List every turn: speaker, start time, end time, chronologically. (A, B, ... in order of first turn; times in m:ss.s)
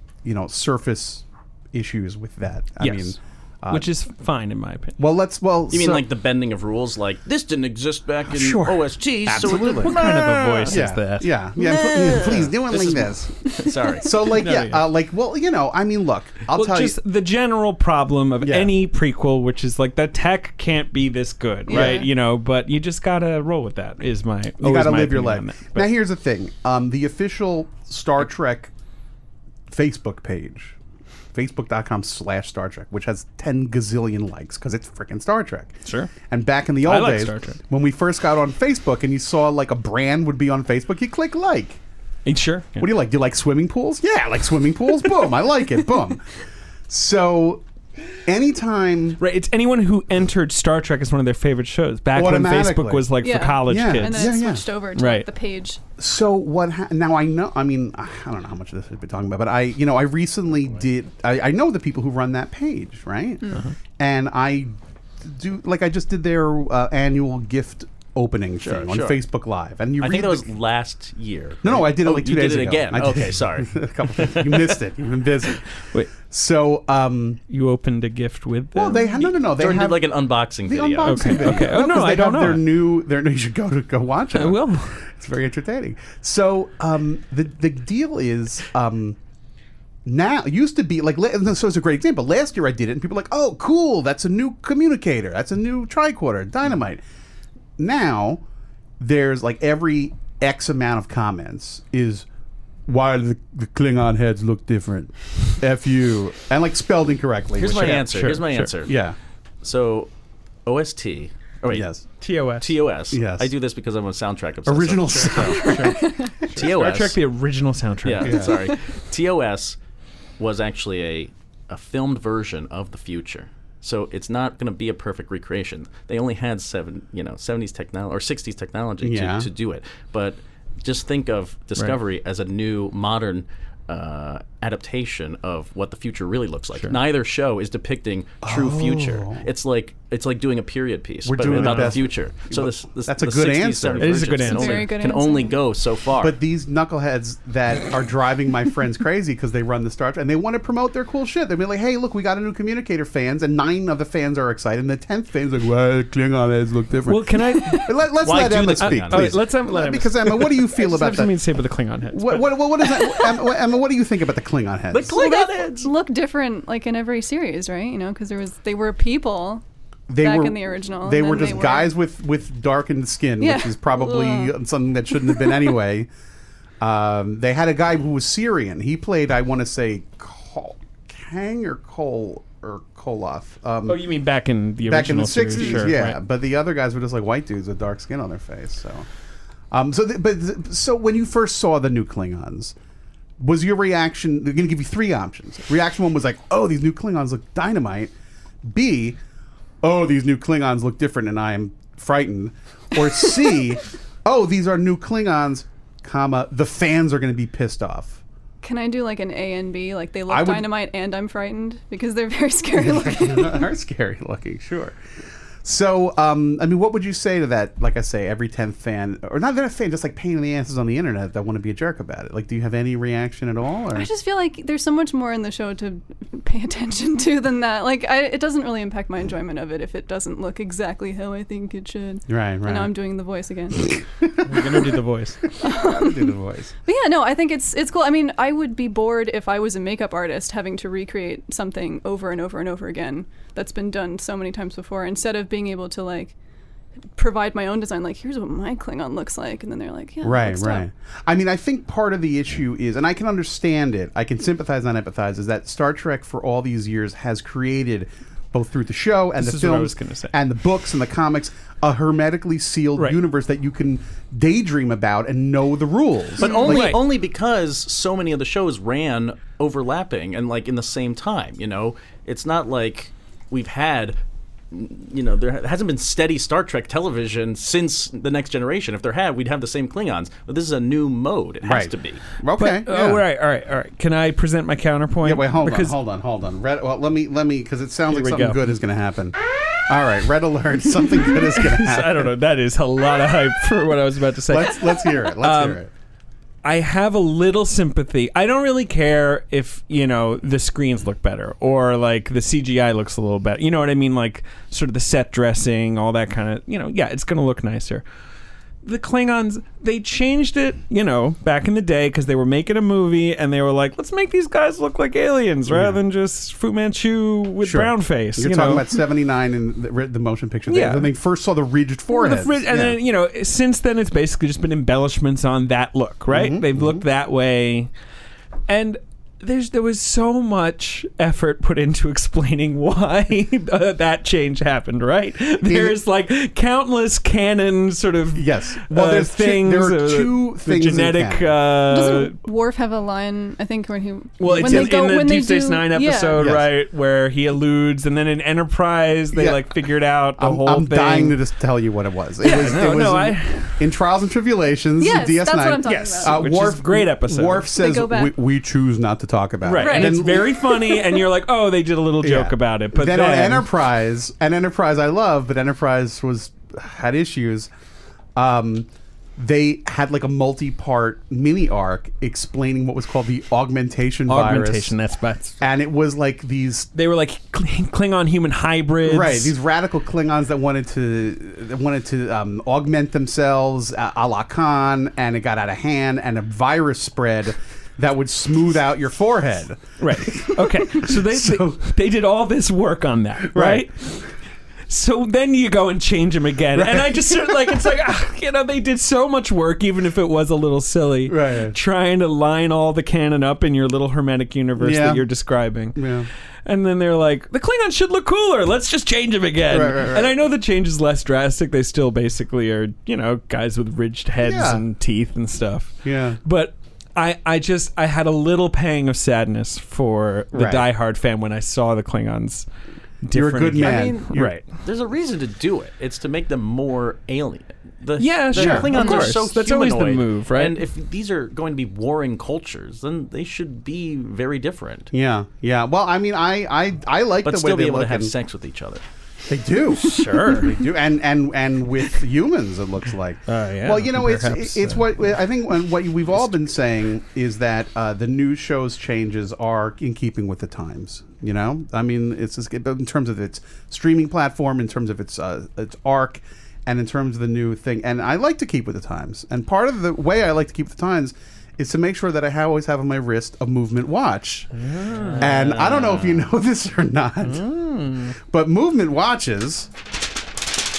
0:00.2-0:03.9 A
0:02.8-0:03.2 B
0:03.7-0:05.0 B
0:05.0-0:06.1 A
0:05.7-0:10.8 C
0:08.3-0:10.0 A
0:09.7-0:11.3 B
0:10.7-0:17.0 A
0:11.6-0:14.1 C
0:14.4-0:14.8 B
0:16.5-0:25.9 B
0:18.4-0:18.7 A
0:21.7-0:22.1 D
0:21.7-0:22.0 A
0:24.6-0:28.7 A
0:29.7-0:30.8 A
0:31.3-0:35.8 A
0:35.8-0:36.1 B
0:36.3-0:41.8 A
0:36.8-0:37.6 B
0:42.2-0:42.9 B
0:42.8-0:46.2 A
0:46.9-0:47.6 A
0:48.2-0:49.2 A
0:49.2-0:54.4 B
0:52.1-0:54.6 A
0:53.2-0:55.8 D
0:55.0-0:55.3 B
0:56.0-1:10.5 A
1:08.6-1:09.2 C
1:10.0-1:14.8 C
1:11.6-1:15.6 A
1:16.2-1:17.4 A
1:17.5-1:19.0 B
1:18.7-1:29.2 A
1:19.2-1:21.6 C
1:21.0-1:22.7 B
1:24.3-1:25.0 B
1:30.0-1:37.0 A
1:37.8-1:38.4 A
1:39.0-1:42.2 A
1:42.9-1:49.2 A
1:47.6-1:49.0 C
1:48.0-1:48.7 B
1:49.6-1:50.1 C
1:50.6-1:51.9 C
1:51.7-1:52.0 A
1:52.2-1:52.7 B
1:52.6-1:55.8 C
1:53.1-1:53.5 A
1:54.6-1:56.3 A
1:55.1-1:58.5 B
1:55.9-1:56.3 D
1:56.5-1:57.2 C
1:58.0-1:59.8 C
1:58.2-1:58.6 A
2:00.4-2:26.4 C
2:09.0-2:09.5 A
2:18.4-2:19.5 A
2:21.2-2:24.5 A
2:21.5-2:21.9 B
2:24.0-2:24.9 B
2:24.5-2:25.5 D
2:26.2-2:41.4 A
2:37.1-2:42.6 B
2:38.2-2:39.4 C
2:42.1-2:45.2 A
2:44.9-2:45.9 C
2:45.1-2:49.6 D
2:50.1-2:56.1 A
2:50.2-2:51.9 D
2:53.4-2:54.5 D
2:55.2-2:55.6 D
2:56.8-3:04.1 A
3:03.9-3:06.2 B
3:04.8-3:09.1 A
3:09.7-3:12.7 A
3:13.4-3:18.1 A
3:18.6-3:19.2 A
3:19.8-3:28.2 A
3:28.6-3:33.6 D
3:30.3-3:30.7 A
3:32.8-3:35.0 A
3:35.6-3:44.1 A
3:43.9-3:54.0 D
3:52.3-3:52.9 A
3:53.8-3:54.8 A
3:54.4-3:55.4 B
3:55.6-4:06.3 D
3:55.7-3:56.7 A
4:07.2-4:10.9 D
4:10.2-4:26.9 A
4:19.4-4:20.3 B
4:26.4-4:34.2 C
4:26.4-4:27.0 B
4:34.7-4:42.2 C
4:41.6-4:43.2 A
4:42.6-4:46.0 B
4:45.2-4:49.4 A
4:48.1-4:48.6 B
4:49.9-4:52.3 A
4:51.5-4:54.8 B
4:54.5-4:55.9 A
4:55.4-4:55.8 B
4:56.6-5:08.0 B
5:08.8-5:18.8 B
5:15.7-5:16.0 A
5:17.6-5:23.0 A
5:20.7-5:21.1 B
5:22.1-5:27.9 B
5:26.3-5:27.0 A
5:28.7-5:42.4 B
5:35.6-5:36.0 A
5:38.3-5:41.6 A
5:41.9-5:46.4 D
5:44.4-5:51.4 B
5:44.4-5:45.0 A
5:46.4-5:46.7 A
5:49.3-5:49.8 A
5:50.4-6:00.6 A
5:52.4-5:53.8 B
5:55.0-5:56.4 D
5:55.8-5:57.7 B
5:57.7-5:58.3 D
5:59.6-6:03.7 B
5:59.7-6:01.0 D
6:02.2-6:07.7 A
6:08.4-6:14.9 A
6:14.3-6:15.6 B
6:15.6-6:16.9 A
6:16.9-6:19.5 B
6:19.0-6:31.8 A
6:30.0-6:34.2 B
6:33.5-6:34.1 A
6:34.9-6:46.0 B
6:36.7-6:37.7 A
6:41.3-6:41.8 A
6:44.8-6:45.2 A
6:45.9-6:46.3 A
6:46.6-7:02.6 B
6:49.7-6:50.4 A
6:54.4-6:54.8 A
6:56.0-6:56.4 A
7:00.5-7:00.9 A
7:03.2-7:04.6 B
7:03.3-7:04.6 A
7:03.8-7:15.1 C
7:08.2-7:10.8 B
7:08.5-7:09.0 A
7:15.1-7:18.3 A
7:17.4-7:19.0 C
7:19.5-7:44.7 A
7:20.0-7:20.8 B
7:23.5-7:25.1 B
7:44.8-7:45.5 B
7:45.4-7:46.5 C
7:45.4-7:47.7 A
7:47.4-7:48.3 B
7:48.4-7:49.9 A